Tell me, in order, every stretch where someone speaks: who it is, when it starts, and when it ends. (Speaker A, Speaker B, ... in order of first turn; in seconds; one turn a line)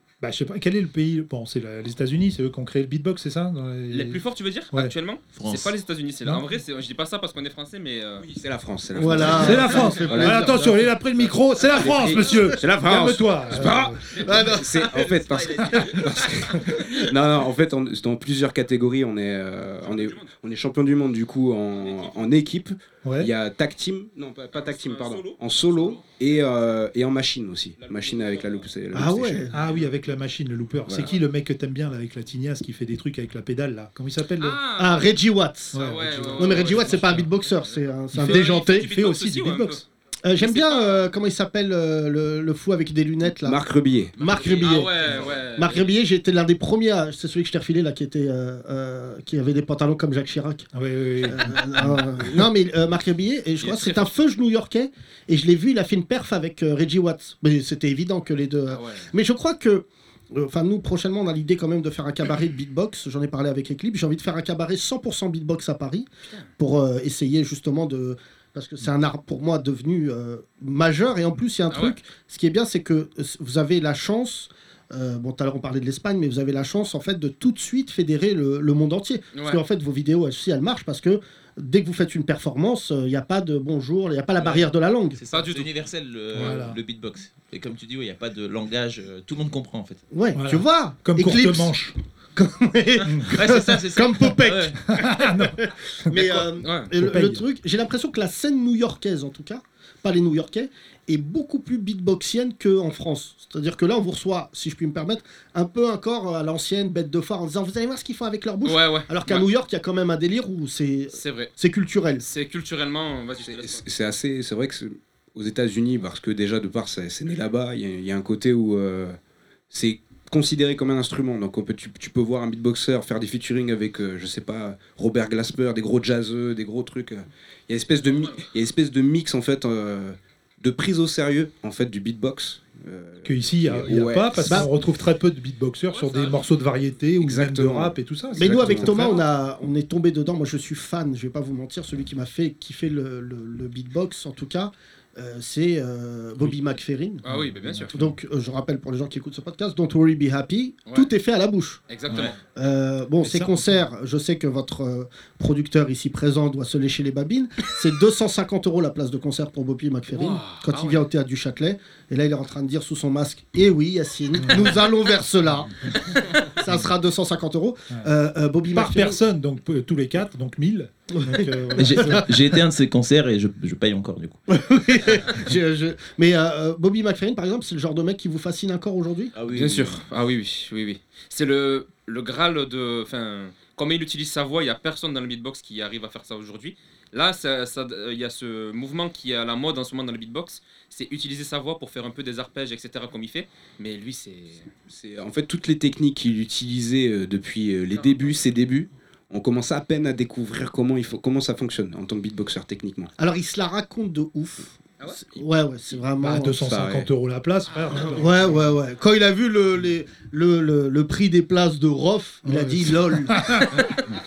Speaker A: 0.2-4.2
Speaker B: 3.9-8.2
Speaker C: 5.3-5.7
Speaker D: 8.2-10.5
Speaker E: 9.0-10.8
Speaker B: 9.2-10.5
Speaker A: 9.3-14.0
Speaker D: 11.8-29.5
Speaker E: 14.2-14.7
Speaker C: 14.9-15.8
Speaker B: 19.8-20.4
Speaker B: 21.8-22.1
Speaker A: 23.0-23.3
Speaker B: 24.5-26.1
Speaker B: 27.8-28.6
Speaker E: 28.9-29.5
Speaker A: 29.5-34.6
Speaker B: 29.6-29.9
Speaker B: 34.4-35.1
Speaker E: 34.8-35.8
Speaker A: 35.7-37.2
Speaker B: 35.7-39.8
Speaker E: 36.4-38.9
Speaker A: 38.1-39.8
Speaker E: 40.2-43.6
Speaker B: 40.4-41.1
Speaker D: 43.4-44.1
Speaker E: 44.2-50.7
Speaker B: 44.2-45.9
Speaker A: 50.7-52.0
Speaker E: 51.2-85.2
Speaker B: 53.6-54.1
Speaker B: 58.7-59.1
Speaker B: 71.7-72.0
Speaker B: 79.3-79.6
Speaker C: 85.2-90.0
Speaker B: 85.2-85.7
Speaker A: 86.3-86.8
Speaker E: 90.1-91.7
Speaker A: 90.3-91.9
Speaker E: 92.3-112.2
Speaker C: 93.3-94.3
Speaker B: 94.4-94.7
Speaker A: 94.9-96.2
Speaker B: 96.2-96.9
Speaker A: 96.9-97.4
Speaker B: 108.6-109.5
Speaker B: 111.1-111.5
Speaker B: 112.2-113.8
Speaker D: 113.6-119.2
Speaker D: 119.7-134.7
Speaker B: 128.1-128.4
Speaker A: 133.2-139.2
Speaker B: 135.9-136.4
Speaker D: 137.2-139.1
Speaker E: 138.4-147.2
Speaker B: 147.2-148.0
Speaker A: 147.3-148.0
Speaker E: 147.9-151.8
Speaker B: 151.9-152.3
Speaker E: 152.5-165.8
Speaker A: 153.2-153.8
Speaker B: 160.1-161.0
Speaker A: 164.4-164.7
Speaker E: 166.4-169.2
Speaker A: 168.7-172.3
Speaker E: 171.1-172.2
Speaker C: 171.8-174.4
Speaker E: 174.5-179.3
Speaker C: 179.3-180.0
Speaker B: 179.5-194.7
Speaker D: 194.9-203.1
Speaker B: 197.9-198.2
Speaker E: 203.2-206.6
Speaker A: 206.2-208.6
Speaker D: 206.6-207.1
Speaker E: 208.0-213.9
Speaker A: 212.4-213.9